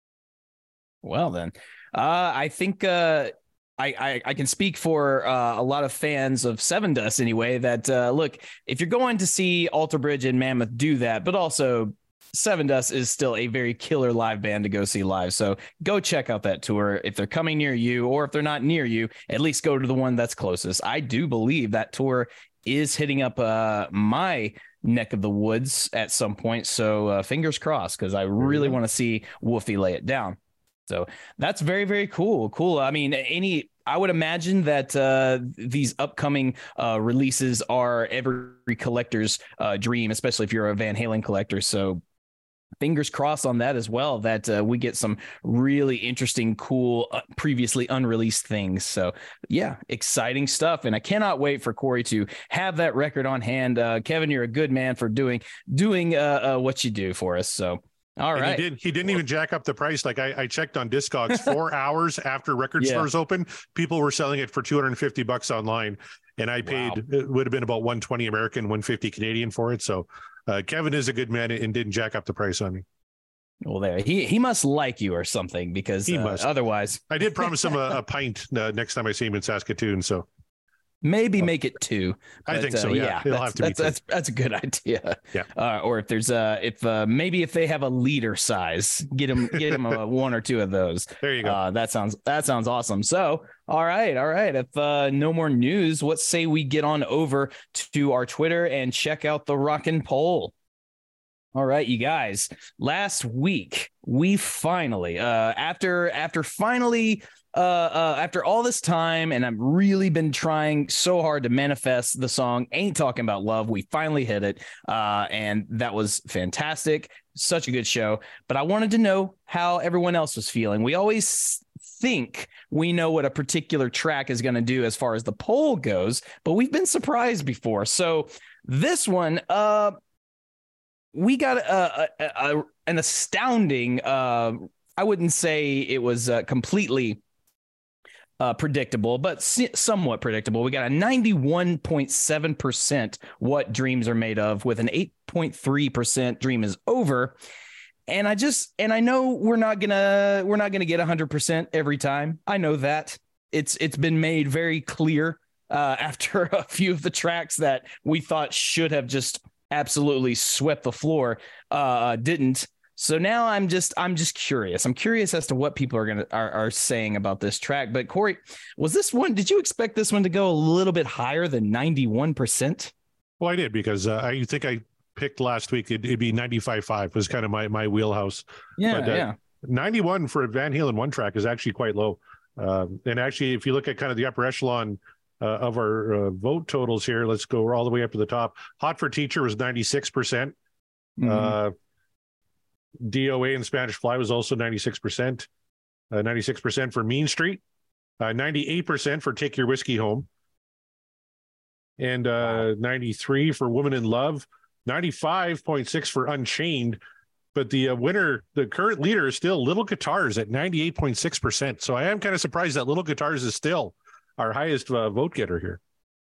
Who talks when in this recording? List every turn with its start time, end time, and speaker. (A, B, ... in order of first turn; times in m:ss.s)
0:01.0-0:42.0 A
0:28.4-0:28.7 B
0:42.8-0:58.6 A
0:58.4-1:12.8 B
1:02.8-1:03.1 A
1:06.6-1:07.0 A
1:13.6-1:17.5 A
1:16.1-1:16.5 B
1:17.1-1:20.2 B
1:21.0-1:40.5 A
1:22.5-1:24.0 B
1:31.2-1:31.6 B
1:41.5-2:10.0 A
2:11.1-2:17.2 A
2:18.4-2:27.4 A
2:28.1-2:52.9 A
2:53.4-3:10.5 B
2:58.8-2:59.3 A
3:11.2-3:11.6 A
3:11.2-3:11.7 B
3:13.0-3:15.5 B
3:16.1-3:17.6 B
3:18.2-3:20.3 B
3:22.0-3:27.0 B
3:27.5-3:35.8 B